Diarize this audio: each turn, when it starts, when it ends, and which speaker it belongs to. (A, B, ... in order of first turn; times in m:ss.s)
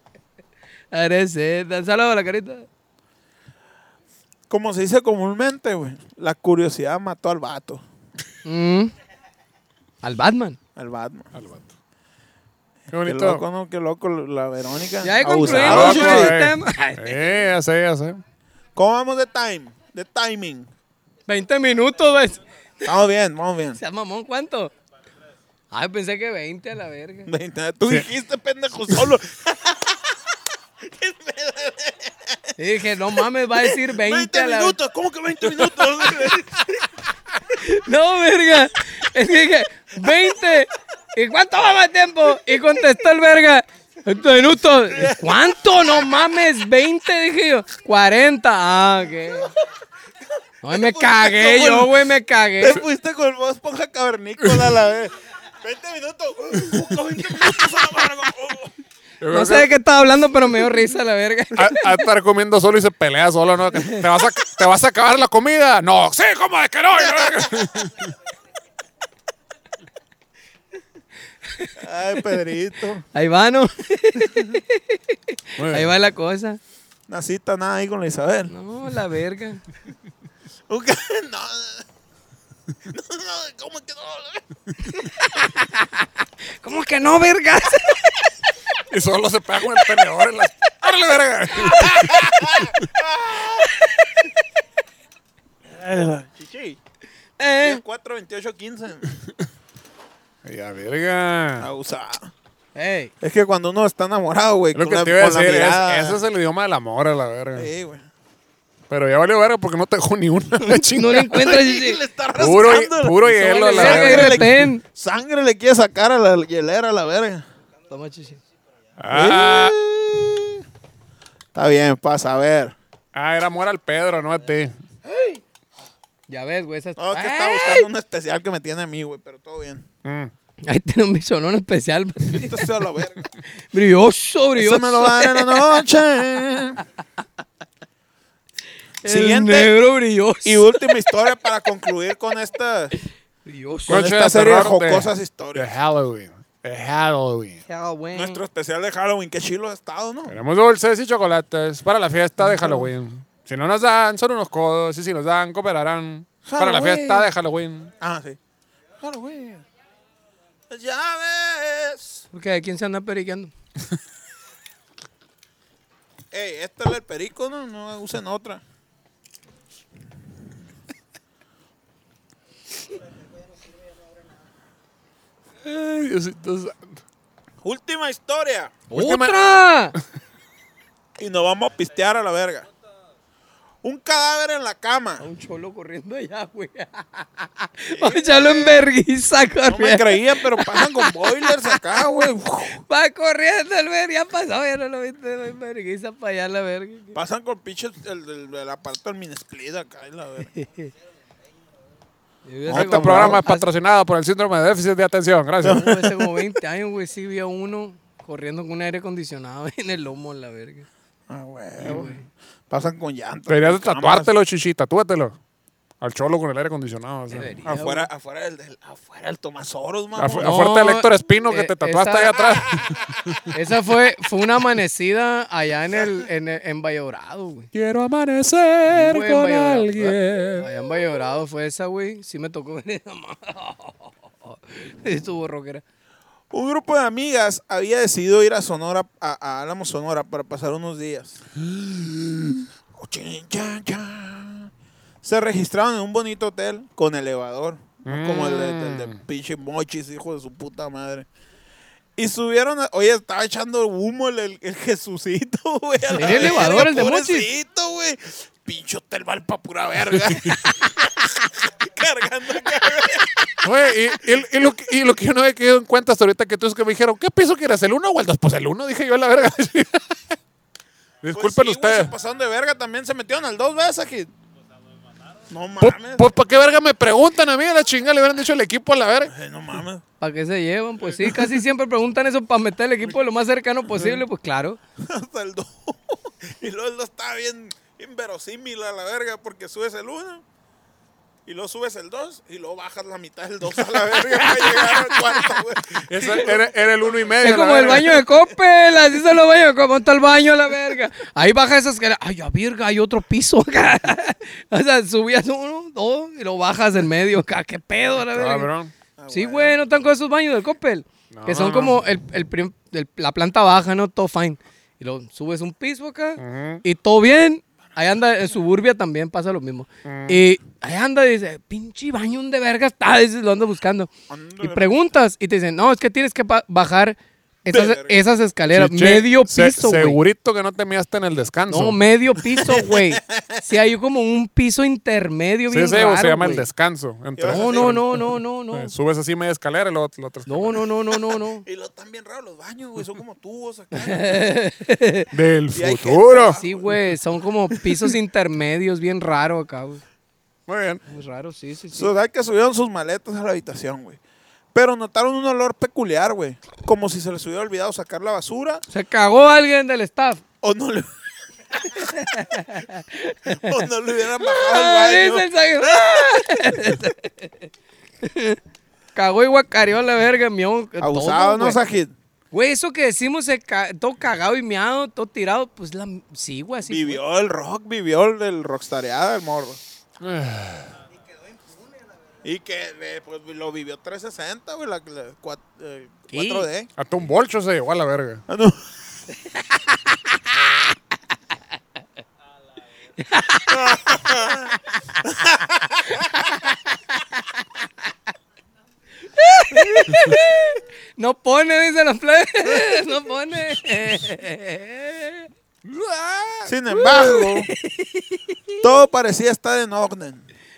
0:00.9-0:02.7 A
0:04.5-0:07.8 B
0:08.4-0:08.9 A
0:10.0-0:10.6 A
0:10.8-0:11.3 B
0:11.3-0:11.7 C
0:12.9-0:13.4 C
0:13.0-0:16.4 B
0:15.0-0:17.4 A
0:15.4-0:18.2 C
0:18.8-0:20.7 B
0:21.3-0:22.9 A
0:22.8-0:23.8 B
0:23.8-0:24.7 A
0:25.7-0:27.3 A
0:27.3-0:30.2 B
0:30.8-0:32.5 B
0:32.6-0:34.8 A
0:33.6-0:36.9 B
0:37.5-0:49.5 A
0:44.9-0:46.2 B
0:50.6-0:52.8 A
0:50.6-0:52.0 B
0:52.6-0:58.8 B
0:59.2-0:59.7 C
0:59.3-1:02.0 A
1:01.6-1:08.2 C
1:11.8-1:13.0 B
1:13.1-1:16.6 A
1:15.6-1:15.9 C
1:17.1-1:18.5 B
1:18.5-1:19.6 A
1:20.7-1:21.9 B
1:22.9-1:24.5 B
1:24.9-1:26.1 A
1:26.6-1:28.2 A
1:28.9-1:32.8 C
1:31.7-1:31.9 A
1:31.8-1:33.7 B
1:33.6-1:34.2 A
1:35.7-1:36.8 B
1:37.4-1:37.8 A
1:37.6-1:39.1 B
1:40.4-1:41.7 C
1:41.6-1:42.3 B
1:42.8-1:43.1 A
1:43.2-1:46.2 B
1:44.7-1:47.7 C
1:47.6-1:48.1 B
1:48.9-1:51.5 C
1:50.6-1:52.0 A
1:51.3-1:57.4 B
1:52.4-1:54.6 C
1:53.7-1:54.8 A
1:57.9-1:58.4 A
1:59.0-1:59.8 C
1:59.1-2:00.6 B
2:01.5-2:02.8 B
2:03.1-2:04.8 C
2:06.3-2:07.9 A
2:07.0-2:09.9 B
2:10.0-2:10.3 C
2:10.6-2:12.6 A
2:12.3-2:13.3 B
2:13.7-2:15.8 A
2:14.6-2:16.8 B
2:19.0-2:21.0 A
2:19.0-2:19.7 B
2:20.4-2:22.9 B
2:23.4-2:24.0 A
2:23.9-2:25.7 B
2:23.9-2:27.6 C
2:27.7-2:28.4 A
2:28.1-2:30.4 B
2:30.3-2:37.9 C
2:36.4-2:37.3 B
2:38.0-2:38.4 B
2:39.0-2:39.6 B
2:40.7-2:42.2 B
2:42.3-2:43.5 A
2:46.3-2:48.6 B
2:55.6-2:57.0 C
2:57.6-2:58.9 B
2:58.9-2:59.5 C
2:58.9-3:00.0 A
3:01.2-3:02.7 B
3:03.8-3:05.2 B
3:05.2-3:12.0 A
3:07.9-3:08.9 B
3:09.6-3:12.8 B
3:12.7-3:17.2 A
3:17.1-3:20.5 B
3:20.5-3:20.9 A
3:22.5-3:23.6 A
3:22.7-3:23.4 B
3:22.7-3:25.9 C
3:25.6-3:26.4 B
3:25.7-3:30.9 A
3:31.3-3:32.2 B
3:31.8-3:32.2 A
3:32.7-3:34.3 B
3:33.5-3:35.4 C
3:36.0-3:37.8 C
3:37.3-3:38.1 A
3:37.6-3:40.6 B
3:40.2-3:43.4 C
3:40.4-3:42.4 A
3:42.7-3:43.0 B
3:43.5-3:47.7 A
3:45.9-3:46.2 B
3:47.7-3:50.7 C
3:48.9-3:55.8 A
3:56.5-4:04.7 B
4:05.2-4:11.3 B
4:08.1-4:09.2 C
4:12.2-4:23.7 B
4:16.1-4:17.5 A
4:23.6-4:30.2 C
4:31.2-4:32.1 C
4:31.3-4:34.3 B
4:35.5-4:36.2 B
4:35.8-4:39.3 C
4:39.3-4:40.0 B
4:40.2-4:44.8 A
4:45.0-4:50.4 B
4:51.5-4:58.4 B
4:53.9-4:55.2 C
4:56.0-4:58.2 C
4:57.4-5:08.7 A
5:08.3-5:08.9 C
5:09.2-5:09.8 B
5:09.3-5:24.1 A
5:11.3-5:12.0 C
5:16.4-5:16.8 C
5:20.0-5:20.4 C
5:24.3-5:25.0 B
5:24.6-5:30.2 A
5:27.7-5:28.2 B
5:28.7-5:32.0 C
5:31.7-5:36.6 A
5:32.5-5:33.6 B
5:35.7-5:40.9 C
5:37.4-5:38.0 B
5:37.5-5:38.9 A
5:40.5-5:41.6 A
5:41.6-5:44.6 B
5:43.9-5:45.3 A
5:45.3-5:46.6 C
5:45.7-5:47.1 B
5:46.6-5:50.0 A
5:50.7-5:51.0 C
5:51.1-5:52.1 A
5:51.9-5:54.2 B
5:54.7-5:58.8 B
5:58.9-6:00.4 A
6:00.6-6:01.1 B
6:01.9-6:03.9 A
6:03.6-6:06.0 B
6:04.4-6:07.7 A
6:08.2-6:08.6 A
6:09.2-6:11.8 A
6:11.0-6:12.1 B
6:12.5-6:17.2 A
6:16.9-6:19.8 B
6:20.2-6:20.9 C
6:22.4-6:26.9 B
6:26.3-6:26.7 A
6:27.0-6:28.4 C
6:28.5-6:28.8 B
6:33.2-6:34.0 A
6:33.7-6:36.5 B
6:37.2-6:37.4 A
6:39.3-6:45.5 A
6:45.8-6:46.7 C
6:46.7-6:47.7 B
6:46.9-6:48.6 A
6:48.8-6:50.4 B